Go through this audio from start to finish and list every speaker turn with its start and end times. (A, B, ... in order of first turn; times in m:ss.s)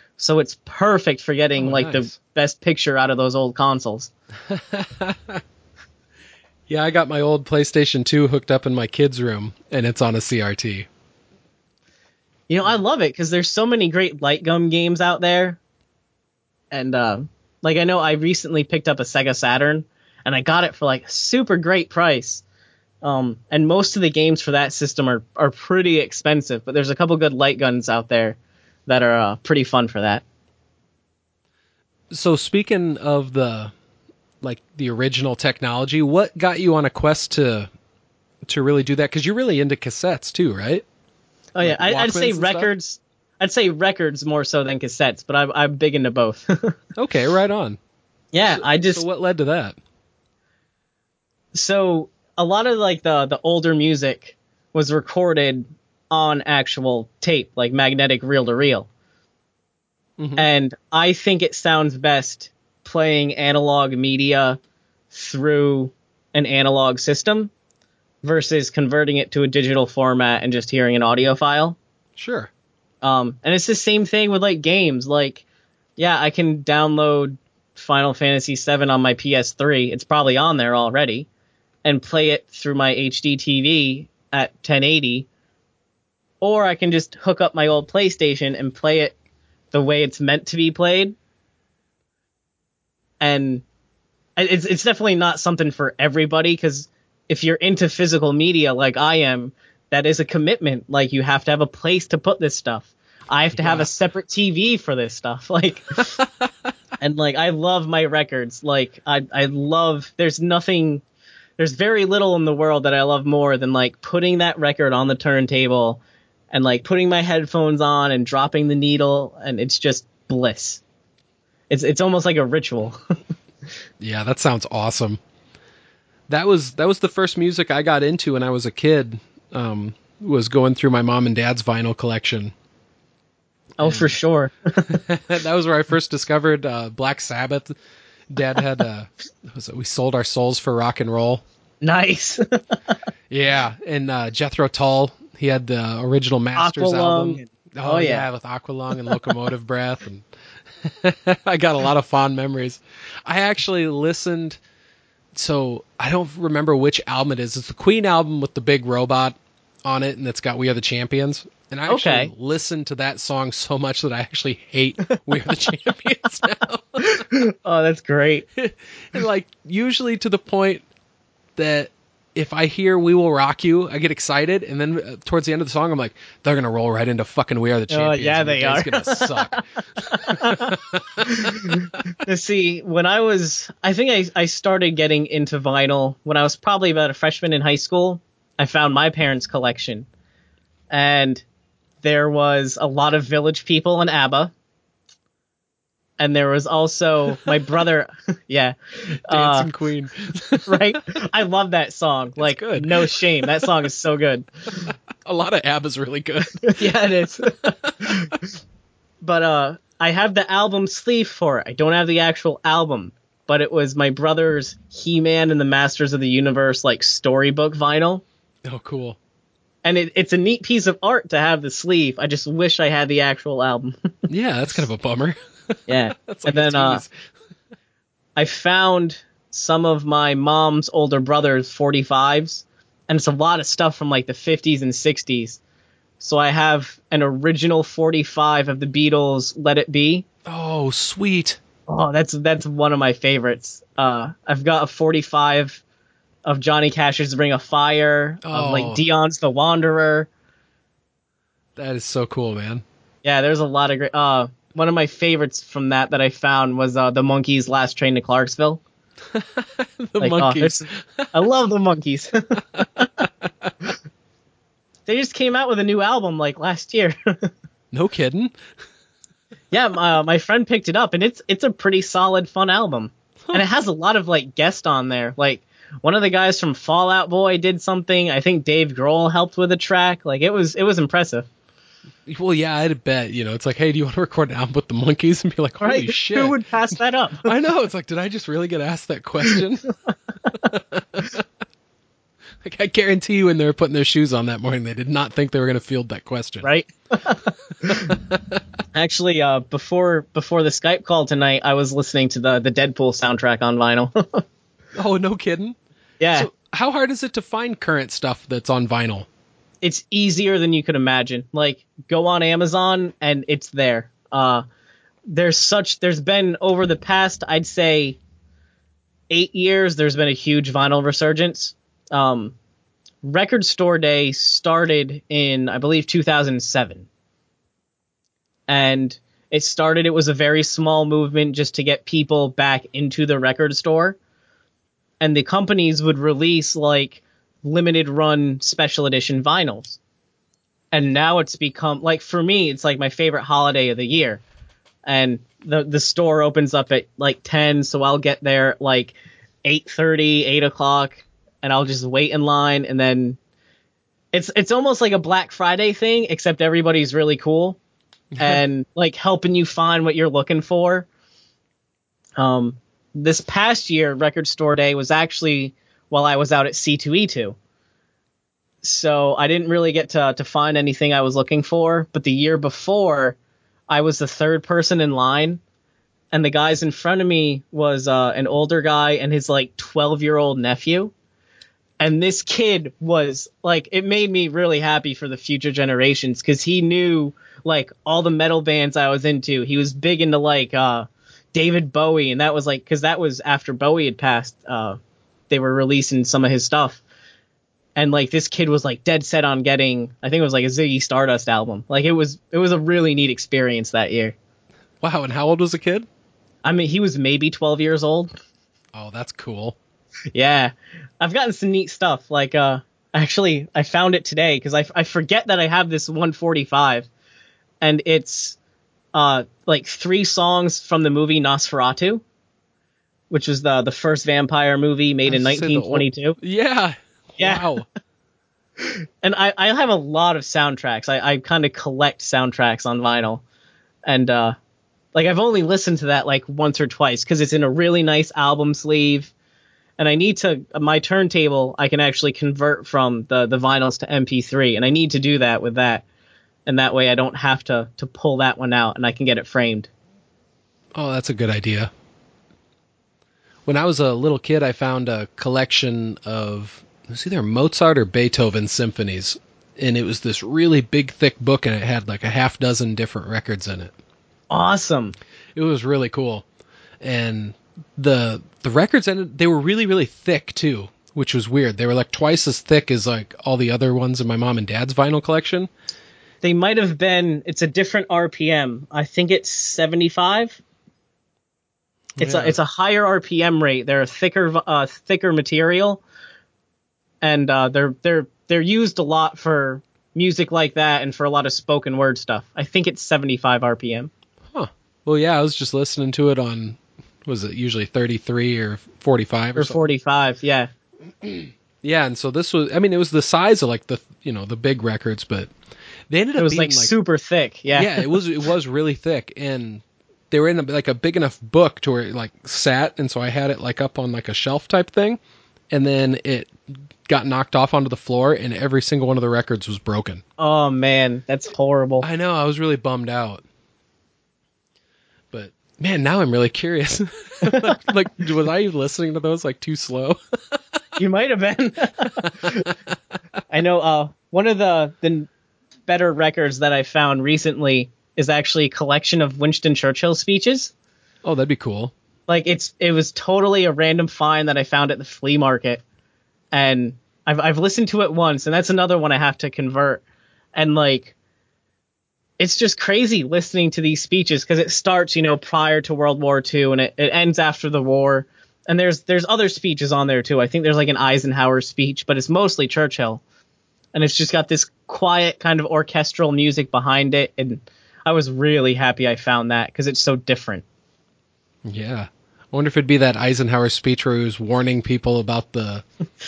0:00.2-0:04.1 A
0:01.6-0:02.1 B
0:04.5-0:05.4 B
0:06.7-0:10.9 B
0:12.5-0:15.6 A
0:16.7-0:22.4 A
0:23.0-0:30.2 A
0:32.1-0:33.7 B
0:34.4-0:37.7 B
0:38.5-0:40.8 B
0:41.5-0:46.8 A
0:41.6-0:42.7 B
0:47.0-0:47.8 B
0:48.3-0:49.0 A
0:48.4-0:49.8 B
0:51.5-0:58.9 A
1:00.2-1:00.4 B
1:00.4-1:04.6 A
1:05.1-1:07.5 A
1:08.2-1:11.8 A
1:12.2-1:12.5 B
1:13.0-1:15.4 A
1:16.0-1:21.3 A
1:21.8-1:25.3 A
1:26.4-1:29.1 A
1:29.7-1:31.2 A
1:33.2-1:33.6 A
1:34.4-1:46.2 A
1:43.6-1:43.9 B
1:46.2-1:46.5 B
1:47.0-1:51.0 A
1:51.6-1:56.0 A
1:56.5-2:00.8 A
2:01.7-2:03.0 A
2:04.0-2:05.2 B
2:06.3-2:12.5 B
2:13.8-2:14.9 A
2:13.8-2:14.1 B
2:14.9-2:17.7 B
2:18.3-2:21.4 B
2:21.8-2:23.0 A
2:23.3-2:30.3 B
2:26.6-2:28.2 A
2:30.8-2:34.6 B
2:35.3-2:47.2 B
2:41.9-2:42.3 A
2:47.0-2:48.4 A
2:48.6-2:50.8 B
2:51.6-3:01.9 B
2:57.9-2:59.6 A
3:00.1-3:10.1 A
3:10.9-3:11.4 A
3:12.0-3:14.5 A
3:16.2-3:18.8 A
3:19.3-3:19.7 A
3:19.3-3:21.0 B
3:20.7-3:24.8 A
3:22.4-3:23.6 B
3:24.8-3:26.8 B
3:26.7-3:28.3 A
3:27.6-3:28.4 B
3:29.2-3:38.2 A
3:38.6-3:39.2 B
3:39.8-3:44.1 A
3:44.3-3:47.1 B
3:45.9-3:47.0 A
3:48.4-3:55.6 A
3:56.2-4:00.2 A
4:00.4-4:01.6 B
4:01.9-4:05.8 A
4:06.4-4:10.3 A
4:08.4-4:09.0 B
4:11.8-4:12.8 B
4:13.2-4:18.8 A
4:19.3-4:21.3 B
4:20.2-4:23.2 A
4:25.1-4:27.5 A
4:27.9-4:28.5 B
4:29.7-4:41.5 A
4:42.2-4:46.6 B
4:45.8-4:47.5 A
4:47.4-4:49.9 B
4:50.5-4:51.4 B
4:52.6-4:56.7 B
4:56.6-4:58.2 A
4:57.9-4:58.6 B
4:58.9-5:04.4 A
5:04.9-5:05.8 B
5:06.2-5:06.5 A
5:06.3-5:09.3 B
5:09.8-5:14.6 A
5:15.3-5:18.2 A
5:19.3-5:22.5 A
5:23.2-5:27.0 A
5:28.7-5:34.2 A
5:35.2-5:40.0 A
5:40.9-5:44.4 A
5:45.0-5:53.4 A
5:54.3-5:57.8 A
5:58.3-5:58.6 B
5:58.4-6:01.1 A
6:02.4-6:07.6 A
6:08.8-6:13.4 A
6:13.9-6:15.6 A
6:16.3-6:21.1 A
6:22.0-6:35.0 A
6:35.5-6:37.0 A
6:38.0-6:44.4 A
6:45.0-6:46.1 B
6:46.6-6:48.3 A
6:48.9-6:49.8 B
6:50.3-6:57.1 A
6:57.8-6:58.6 A
6:59.1-7:02.2 A
7:03.3-7:06.4 A
7:05.2-7:07.9 B
7:07.4-7:07.7 A
7:08.8-7:13.4 A
7:14.1-7:14.6 A
7:15.1-7:19.3 A
7:20.0-7:26.0 A
7:26.6-7:29.9 A
7:30.9-7:31.9 B
7:33.6-7:43.9 B
7:44.5-7:45.1 A
7:45.5-7:46.4 B
7:47.0-7:55.7 B
7:56.4-8:00.6 A
8:02.2-8:02.6 B
8:02.2-8:06.0 A
8:07.2-8:14.1 A
8:14.5-8:19.8 B
8:19.6-8:20.7 A
8:21.2-8:25.5 B
8:26.1-8:26.9 B
8:26.4-8:28.2 A
8:27.7-8:35.2 B
8:35.7-8:36.5 B
8:37.1-8:40.2 B
8:40.4-8:42.0 A
8:42.0-8:43.4 B
8:45.3-8:50.6 B
8:51.0-8:52.7 A
8:52.2-8:52.5 B
8:53.5-8:55.3 A
8:55.9-9:00.7 A
9:01.2-9:01.9 B
9:02.3-9:05.8 A
9:06.5-9:10.0 A
9:10.6-9:11.1 A
9:12.4-9:23.2 A
9:23.9-9:30.6 A
9:31.6-9:35.8 B